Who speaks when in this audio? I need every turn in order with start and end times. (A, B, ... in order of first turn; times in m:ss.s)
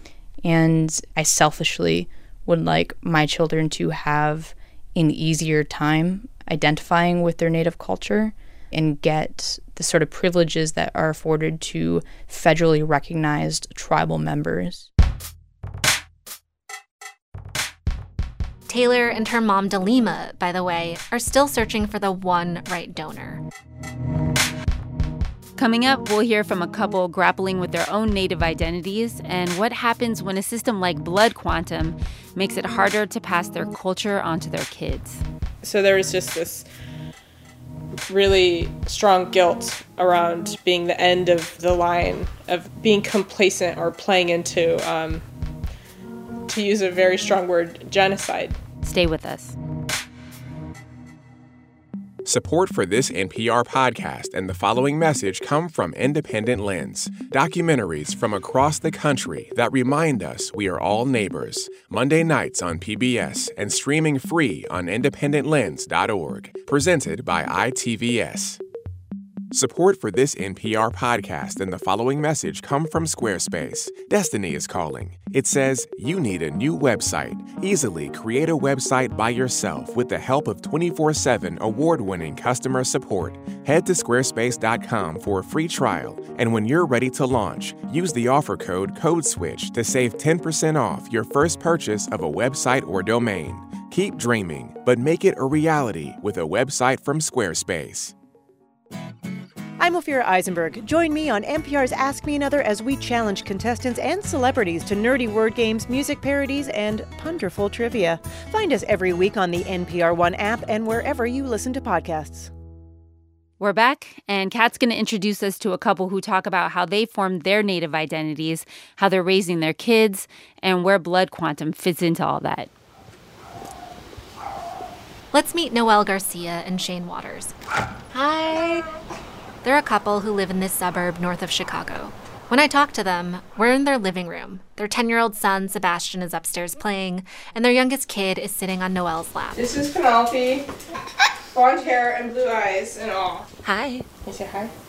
0:00.4-0:14.9 A
0:18.7-0:23.4 B
0:25.6-0:35.2 C
0:35.6-0:36.6 D
0:38.1-0:45.2 D
0:46.5-0:48.6 D
0:48.8-0:49.6 C
0:52.2-1:08.6 E
1:09.5-1:38.1 E
1:39.8-1:52.5 F
1:53.6-2:02.7 C
2:05.3-2:07.5 B
2:08.1-2:08.8 B
2:09.6-2:19.6 B
2:19.5-2:20.7 D
2:21.5-2:23.5 D
2:23.6-2:24.0 B
2:24.2-2:24.7 D